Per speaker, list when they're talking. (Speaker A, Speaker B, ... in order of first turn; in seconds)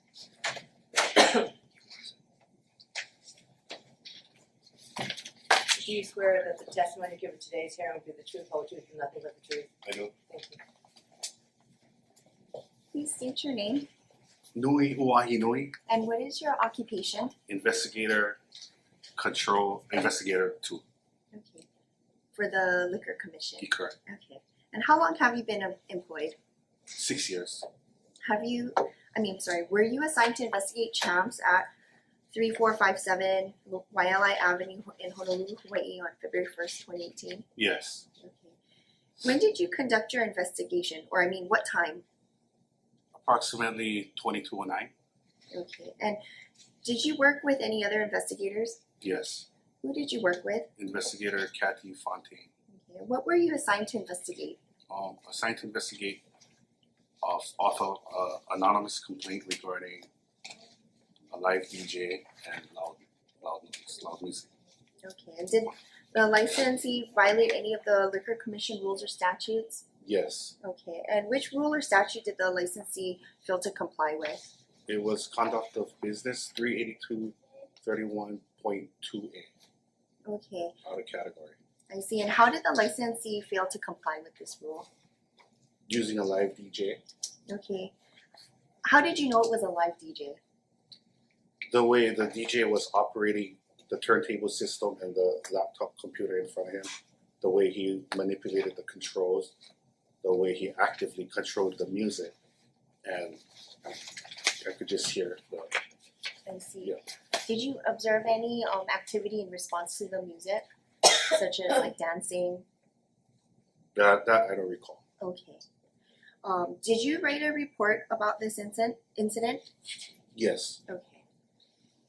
Speaker A: 5.5-9.7, 10.3-10.6
Speaker B: 9.8-10.1, 14.6-15.7, 17.5-18.4, 19.2-20.8, 23.6-23.9, 26.9-27.7, 37.6-38.0, 43.1-44.9, 49.0-49.5, 50.8-52.5, 54.9-56.2, 57.2-60.1, 61.3-64.5, 70.0-70.5, 74.9-79.5, 80.8-81.6, 85.9-87.0, 91.7-99.5, 100.2-102.3, 103.0-103.4, 104.6-105.8, 114.0-115.0, 120.3-120.8
Speaker C: 12.9-13.9, 15.9-17.4, 21.3-21.7, 22.3-26.4, 28.2-31.7, 32.3-37.5, 38.2-38.5, 39.2-42.0, 45.5-46.2, 46.8-48.8, 49.8-50.7, 52.7-54.6, 65.0-69.8, 70.6-74.4, 80.2-80.8, 81.9-84.9, 87.5-87.9, 88.8-90.4, 106.5-112.7, 115.2-115.6, 116.4-119.7, 120.9-121.2